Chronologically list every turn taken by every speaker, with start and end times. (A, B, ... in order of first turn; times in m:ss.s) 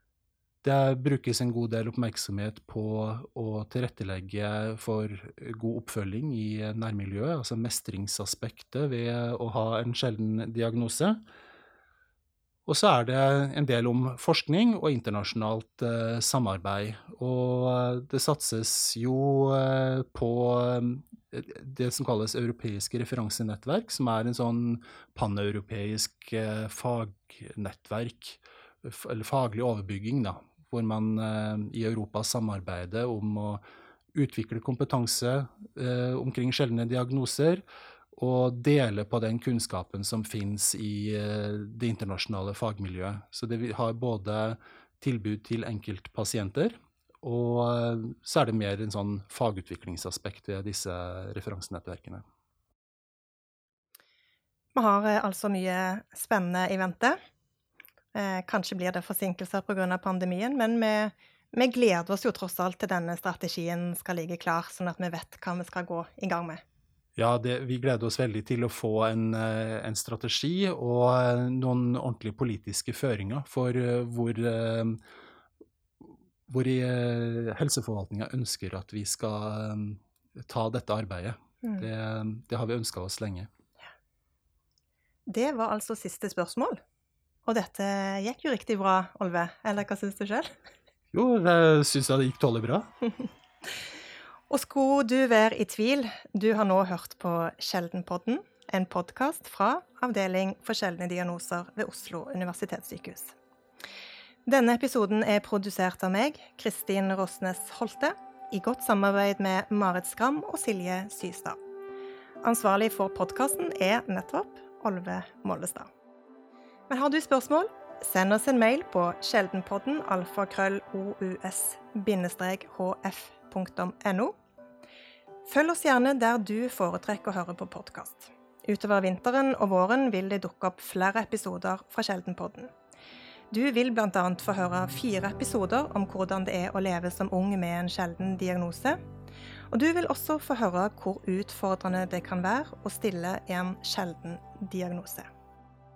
0:00.6-0:11.2 A
0:12.7-0:33.6 A
0:34.1-0:52.2 A
0:54.7-0:57.2 B
0:58.1-1:06.6 B
1:07.2-1:15.0 A
1:16.5-1:23.5 A
1:25.3-1:26.8 B
1:27.4-1:30.5 B
1:31.1-1:32.9 A
1:34.5-1:43.3 B
1:44.4-1:51.6 B
1:52.4-1:55.9 B
1:56.9-2:04.3 B
2:05.4-2:12.7 B
2:13.5-2:19.0 B
2:19.7-2:25.3 B